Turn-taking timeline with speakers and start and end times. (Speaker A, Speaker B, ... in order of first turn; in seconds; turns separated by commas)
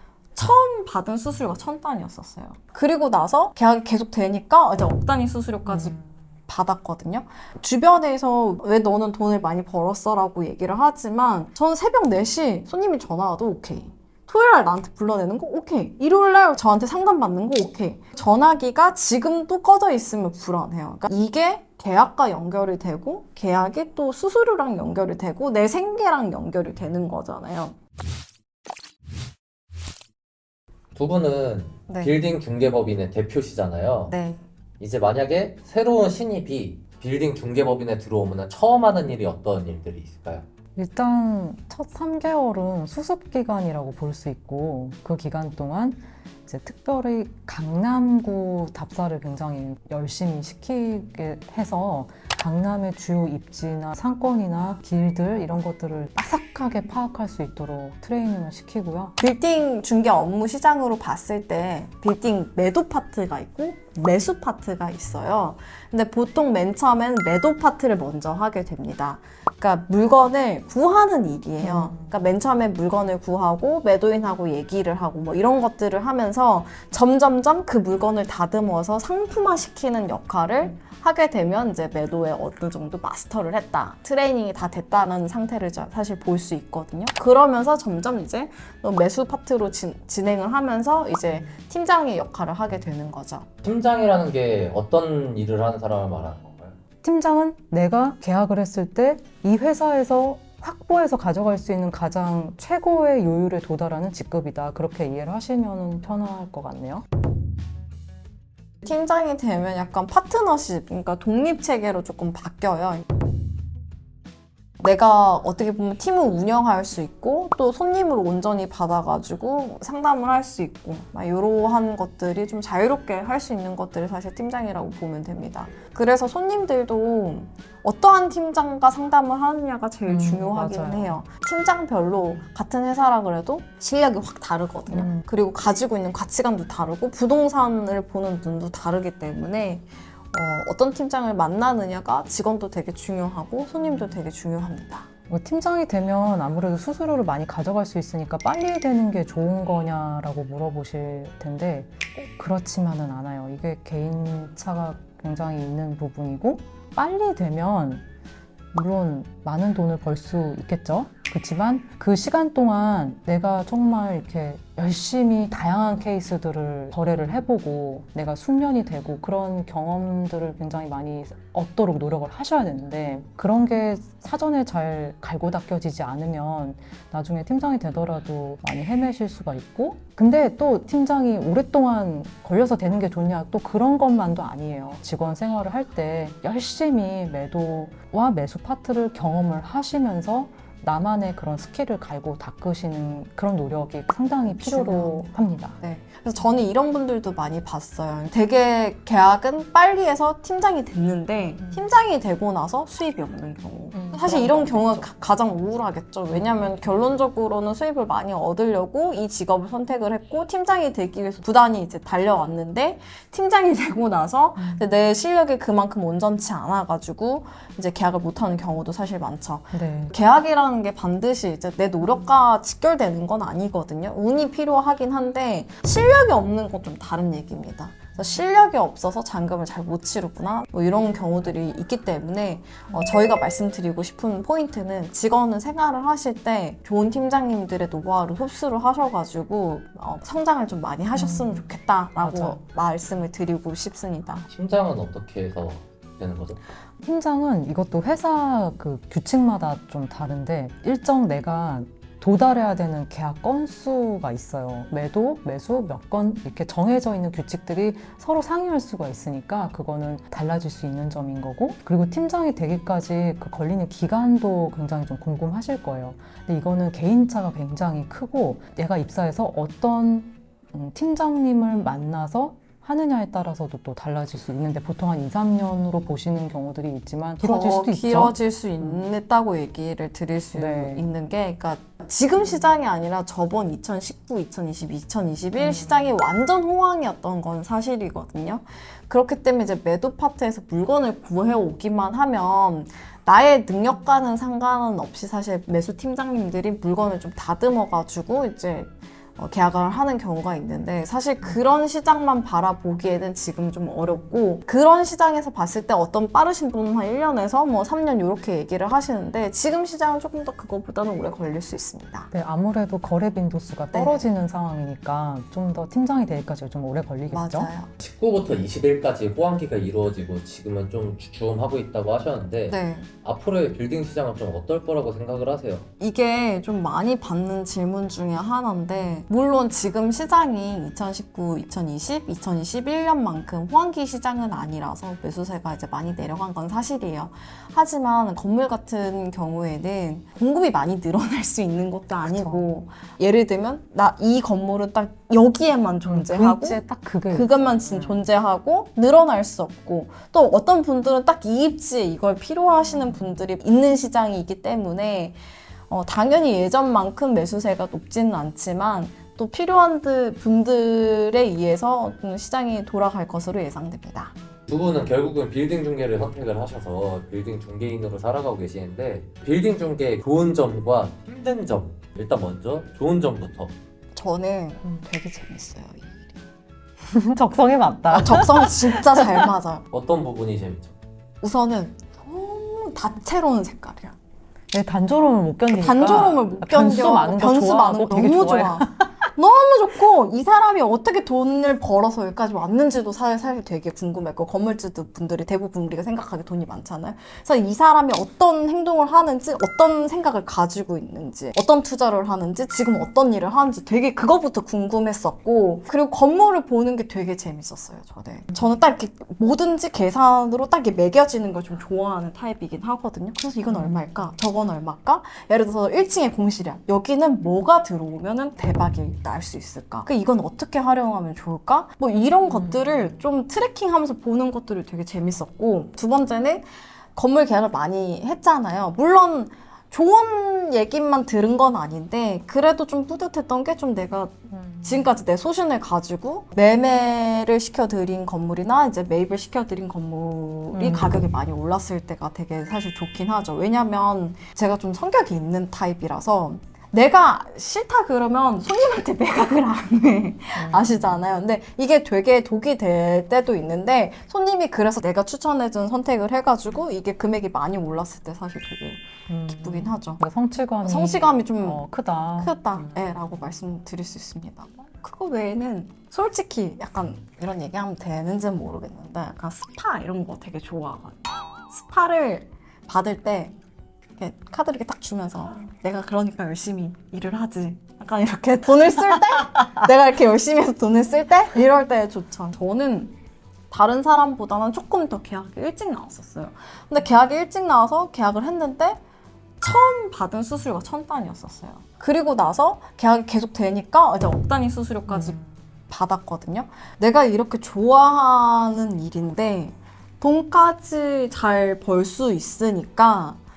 Speaker A: 0.3-6.0, Speaker B: 5.7-6.0, Speaker A: 6.5-27.8, Speaker C: 30.9-34.1, Speaker A: 31.9-32.1, Speaker A: 34.1-34.4, Speaker C: 34.8-40.4, Speaker B: 40.8-59.1, Speaker A: 59.2-93.5, Speaker B: 71.6-72.1, Speaker C: 93.6-96.8, Speaker B: 97.0-107.0, Speaker A: 108.8-113.0, Speaker A: 114.8-145.1, Speaker B: 130.1-131.2, Speaker B: 134.9-135.2, Speaker B: 145.3-158.0, Speaker B: 158.7-195.8, Speaker A: 194.5-244.4, Speaker B: 201.6-201.8, Speaker B: 203.9-205.1, Speaker B: 214.6-214.9, Speaker B: 219.7-220.1, Speaker B: 241.1-242.6, Speaker C: 244.5-246.6, Speaker B: 247.0-279.1, Speaker A: 277.4-312.3, Speaker B: 280.5-281.1, Speaker B: 285.6-286.1, Speaker B: 312.3-317.7, Speaker A: 313.9-314.3, Speaker A: 317.3-317.9, Speaker C: 318.0-325.9, Speaker A: 322.7-323.1, Speaker A: 326.0-355.4, Speaker B: 342.2-342.6, Speaker B: 346.0-348.3, Speaker B: 352.9-353.2, Speaker A: 355.9-364.3, Speaker C: 364.7-373.7, Speaker A: 374.1-376.4, Speaker B: 377.1-379.4, Speaker A: 378.1-379.8, Speaker C: 379.9-380.9, Speaker A: 381.4-384.2, Speaker B: 384.7-389.1, Speaker A: 385.7-460.2, Speaker B: 413.7-414.2, Speaker B: 422.5-423.1, Speaker B: 434.5-435.1, Speaker B: 440.7-441.2, Speaker B: 450.5-451.2, Speaker B: 459.3-463.1, Speaker A: 460.8-461.8, Speaker A: 462.4-473.6, Speaker A: 474.2-483.1, Speaker A: 483.7-489.0, Speaker A: 489.6-495.4, Speaker B: 495.1-495.5, Speaker A: 495.9-503.4